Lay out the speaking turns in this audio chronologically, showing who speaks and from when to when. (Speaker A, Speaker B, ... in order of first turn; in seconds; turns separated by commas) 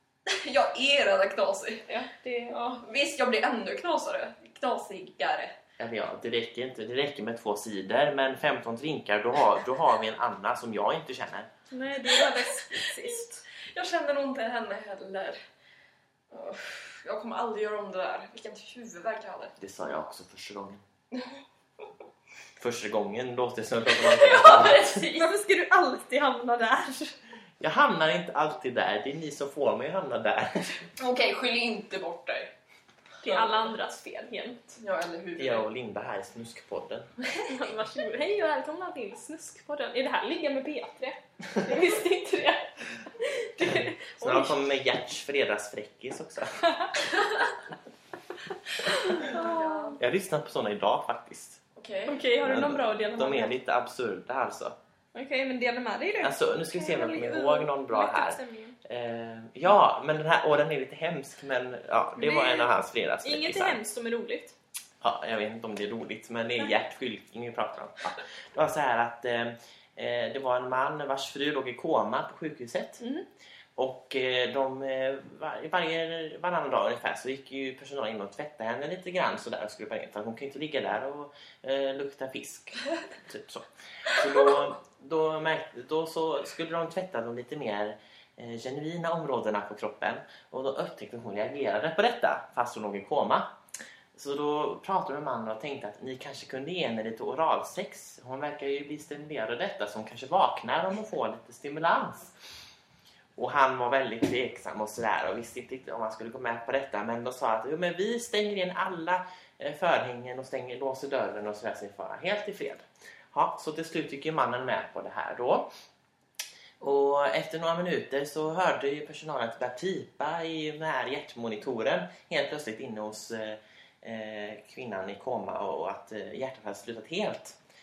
Speaker A: 0.3-1.9, Speaker B: 1.9-2.8, Speaker A: 2.5-5.5, Speaker C: 5.8-11.5, Speaker B: 11.7-13.4, Speaker A: 12.1-15.4, Speaker A: 16.3-19.6, Speaker C: 19.6-20.8, Speaker A: 21.1-21.4, Speaker C: 22.6-25.0, Speaker A: 23.9-25.3, Speaker B: 25.1-27.1, Speaker C: 27.6-30.9, Speaker A: 31.0-32.5, Speaker A: 33.2-33.7, Speaker B: 33.2-34.8, Speaker A: 34.8-35.7, Speaker C: 35.4-37.1, Speaker A: 37.2-37.7, Speaker B: 37.5-44.6, Speaker C: 43.6-46.7, Speaker B: 46.6-47.2, Speaker B: 48.9-50.0, Speaker A: 49.1-50.0, Speaker C: 50.0-51.6, Speaker A: 51.8-52.2, Speaker B: 52.1-53.5, Speaker C: 52.4-54.8, Speaker B: 55.1-58.8, Speaker C: 56.2-63.8, Speaker B: 62.2-62.7, Speaker B: 63.2-64.5, Speaker C: 65.0-73.0, Speaker C: 73.8-93.5, Speaker C: 94.1-102.3, Speaker C: 103.3-115.7, Speaker C: 116.8-127.6